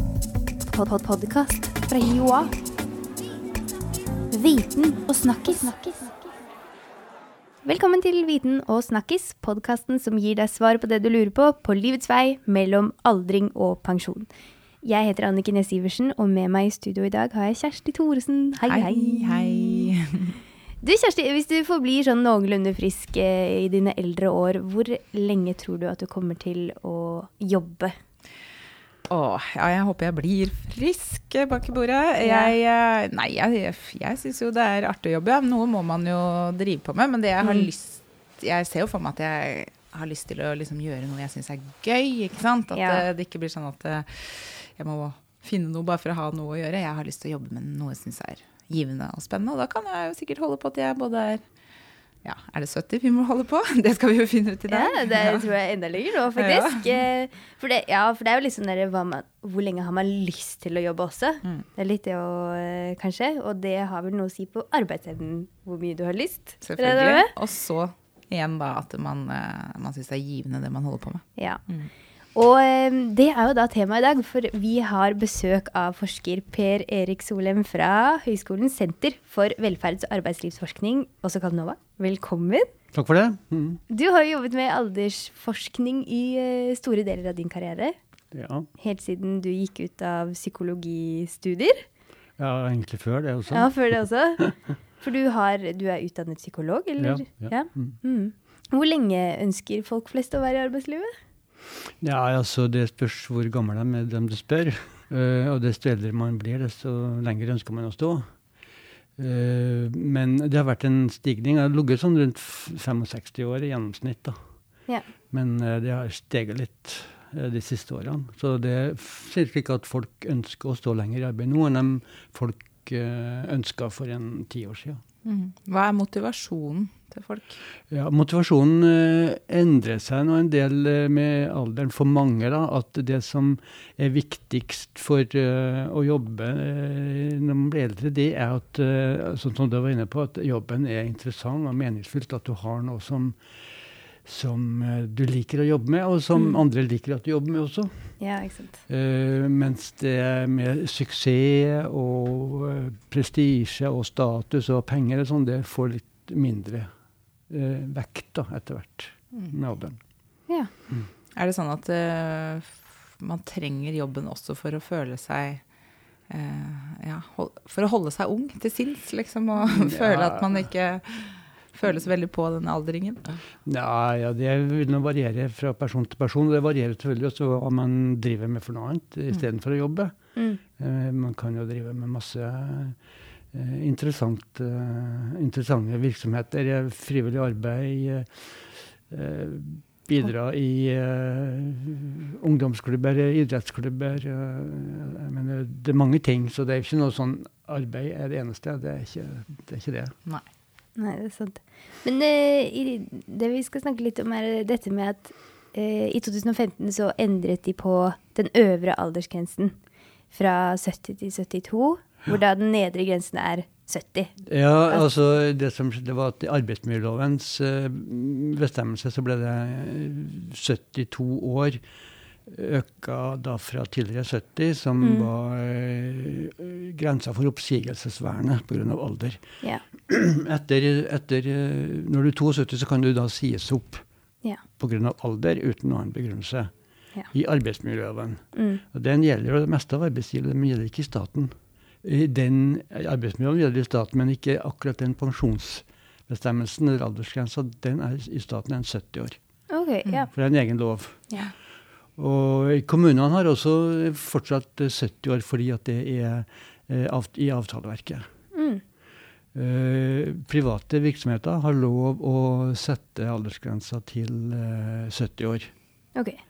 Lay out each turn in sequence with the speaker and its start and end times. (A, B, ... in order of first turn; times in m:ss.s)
0:00.7-0:02.5 A
0:04.3-0:06.2 A
0:07.6-0:14.3 A
0:14.8-0:19.9 A
0:18.7-0:20.4 B
0:20.8-0:27.9 A
0:29.1-0:51.4 B
0:32.2-0:32.5 A
0:42.7-0:43.0 A
0:52.2-0:55.5 B
0:54.7-1:07.3 A
0:56.4-0:57.0 B
1:06.6-1:11.9 B
1:11.4-1:11.6 A
1:12.3-1:22.7 A
1:22.9-1:23.8 C
1:23.9-1:28.0 A
1:28.3-1:28.7 C
1:28.8-1:31.8 A
1:32.4-1:34.4 C
1:33.5-1:41.1 A
1:37.0-1:38.0 C
1:42.0-1:48.3 C
1:49.2-1:54.4 C
1:55.3-2:05.0 C
2:05.2-2:07.6 B
2:07.9-2:23.4 C
2:24.2-2:28.1 C
2:28.2-2:28.8 A
2:28.9-2:36.9 C
2:37.5-2:40.0 C
2:41.4-2:45.6 B
2:46.3-2:53.4 B
2:49.8-2:50.6 C
2:53.6-3:00.1 C
3:00.4-3:00.6 A
3:00.8-3:03.0 C
3:03.5-3:20.2 C
3:21.0-3:29.8 A
3:30.3-3:34.3 A
3:34.4-3:41.8 C
3:42.4-3:49.4 C
3:45.0-3:45.3 A
3:50.0-3:54.0 C
3:54.8-3:56.7 C
3:57.3-4:09.4 C
3:58.5-3:58.8 A
4:09.7-4:10.3 A
4:10.3-4:11.4 C
4:12.2-4:18.2 C
4:18.5-4:18.8 A
4:19.5-4:25.7 C